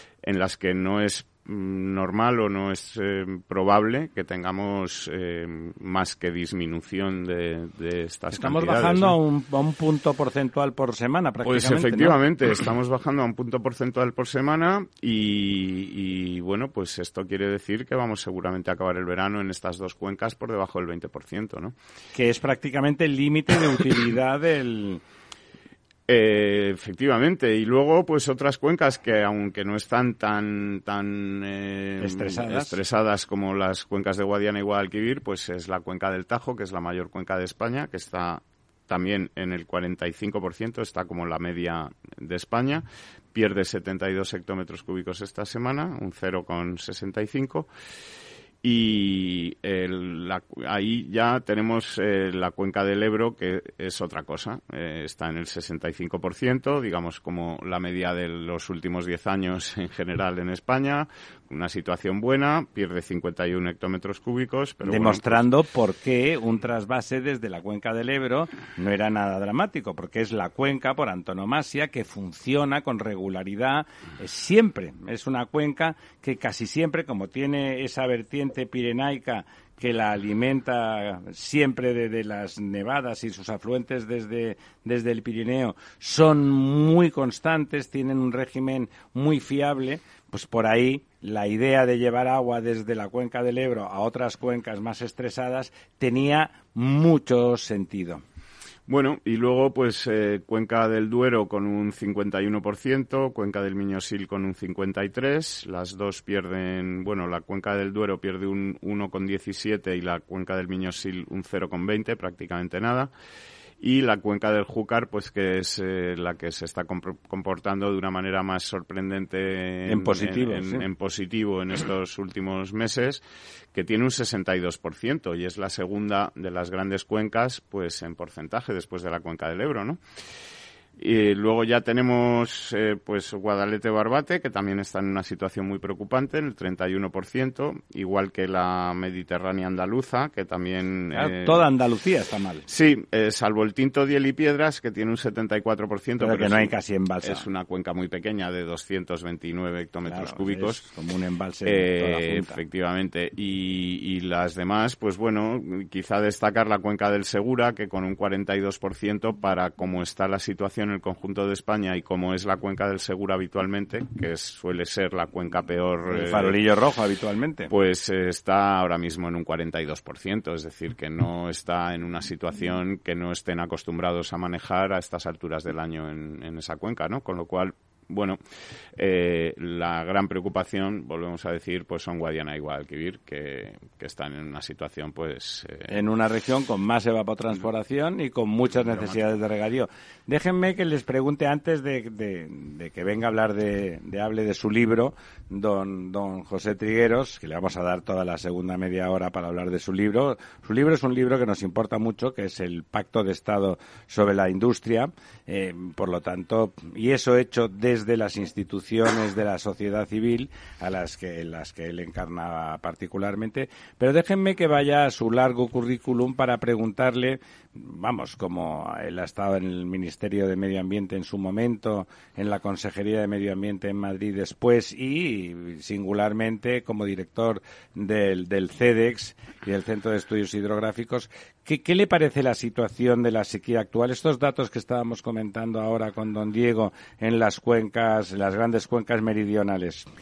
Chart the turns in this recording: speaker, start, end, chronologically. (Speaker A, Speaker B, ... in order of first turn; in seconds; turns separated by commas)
Speaker A: 0.2-9.2, Speaker B: 8.3-12.2, Speaker A: 11.4-21.8, Speaker B: 22.1-25.0, Speaker A: 26.1-47.7, Speaker B: 32.0-32.8, Speaker A: 48.6-65.4, Speaker B: 64.8-98.2, Speaker A: 98.9-113.1, Speaker A: 113.8-123.2, Speaker B: 119.9-120.8, Speaker A: 123.7-130.0, Speaker A: 131.0-141.7, Speaker B: 141.1-142.6, Speaker A: 142.7-146.7, Speaker B: 146.2-147.5, Speaker A: 147.2-150.8, Speaker B: 150.1-152.6, Speaker A: 151.7-166.6, Speaker B: 166.1-167.7, Speaker A: 167.7-178.4, Speaker A: 179.0-186.0, Speaker B: 185.9-240.1, Speaker A: 188.7-189.4